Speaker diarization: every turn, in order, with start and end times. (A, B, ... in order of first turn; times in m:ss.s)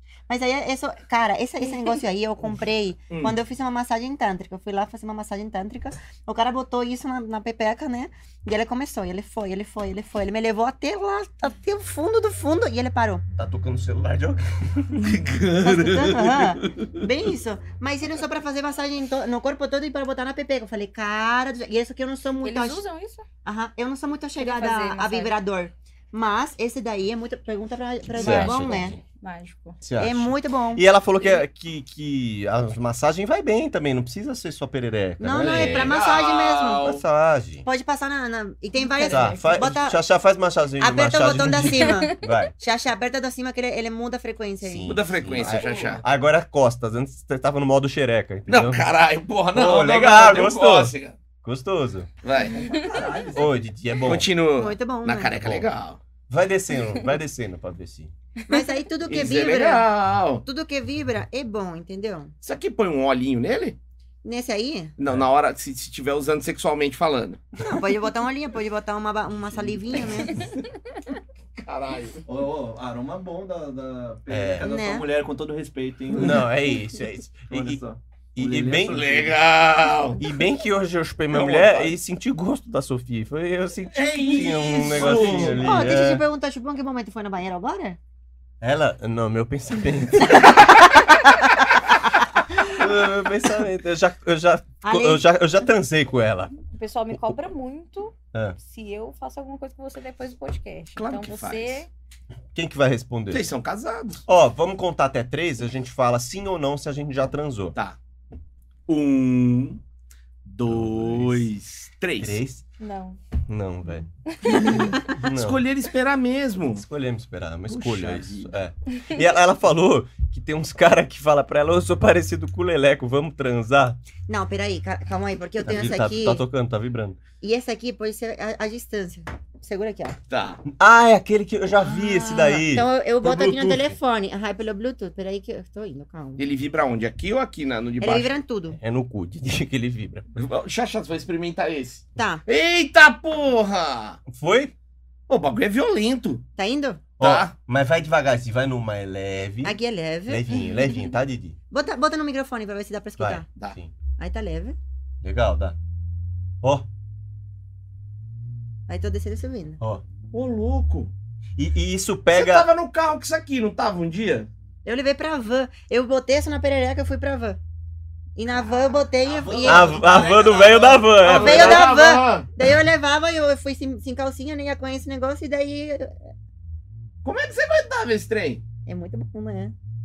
0:00.3-0:13.2 A
0:01.7-0:02.0 B
0:03.1-0:03.4 C
0:13.4-0:15.1 D
0:15.0-0:16.9 C
0:15.6-0:22.8 A
0:22.4-0:23.2 B
0:23.4-0:29.0 A
0:24.4-0:25.3 B
0:28.1-0:29.8 B
0:28.1-0:29.0 D
0:29.8-0:36.0 D
0:30.0-0:30.8 A
0:35.2-0:36.9 A
0:35.4-0:37.0 C
0:36.8-0:37.6 D
0:37.6-0:40.0 A
0:38.8-0:39.7 B
0:39.1-0:42.5 D
0:40.8-0:45.0 A
0:41.6-0:42.3 B
0:44.6-0:48.9 D
0:44.9-0:46.0 C
0:48.5-0:51.2 C
0:49.5-0:52.1 D
0:52.2-0:52.7 C
0:52.5-0:53.6 E
0:53.3-0:54.3 D
0:54.0-0:56.0 C
0:54.5-0:55.4 A
0:55.4-0:55.7 D
0:56.3-0:58.1 D
0:58.5-0:58.8 B
0:58.5-0:59.9 A
0:59.1-1:00.4 C
1:00.4-1:02.3 A
1:02.4-1:03.8 C
1:04.2-1:04.9 A
1:05.0-1:07.4 C
1:07.6-1:10.5 A
1:11.6-1:12.2 C
1:12.2-1:16.5 E
1:14.3-1:14.7 D
1:14.6-1:15.1 A
1:16.1-1:16.4 C
1:16.2-1:17.8 D
1:17.5-1:19.3 E
1:18.4-1:19.0 D
1:18.8-1:20.2 C
1:20.2-1:26.2 D
1:21.3-1:21.9 C
1:23.9-1:25.9 C
1:25.0-1:25.4 E
1:25.4-1:28.0 A
1:28.6-1:31.0 D
1:30.2-1:31.0 A
1:32.6-1:36.6 D
1:34.8-1:35.2 A
1:36.7-1:41.9 B
1:41.0-1:41.8 C
1:42.5-1:43.4 D
1:43.3-1:44.2 C
1:44.3-1:47.7 D
1:48.9-1:49.8 C
1:50.4-1:52.4 C
1:50.7-1:51.5 D
1:52.2-1:52.6 D
1:52.8-1:53.2 B
1:53.5-1:55.6 D
1:54.3-1:55.0 B
1:54.5-1:56.8 C
1:56.7-2:04.0 D
1:57.7-1:58.5 C
2:04.3-2:06.4 A
2:05.6-2:07.2 D
2:07.4-2:10.2 A
2:10.3-2:10.6 C
2:10.6-2:14.0 D
2:11.8-2:16.4 A
2:16.4-2:18.3 C
2:18.0-2:18.8 A
2:18.7-2:20.2 D
2:20.3-2:24.2 C
2:22.2-2:22.4 A
2:24.3-2:24.7 D
2:25.3-2:26.4 C
2:26.6-2:27.0 A
2:27.2-2:27.5 C
2:27.2-2:31.6 D
2:29.6-2:31.0 A
2:31.7-2:33.4 A
2:33.2-2:33.9 D
2:34.2-2:34.8 A
2:35.2-2:35.8 D
2:36.6-2:36.9 D
2:38.9-2:39.8 A
2:40.3-2:41.1 C
2:41.6-2:42.7 D
2:42.3-2:44.5 C
2:44.8-2:47.6 A
2:48.4-2:50.2 A
2:49.2-2:51.0 E
2:49.6-2:51.9 D
2:49.9-2:52.5 C
2:51.2-2:56.2 A
2:57.2-2:58.6 C
2:58.8-2:59.7 A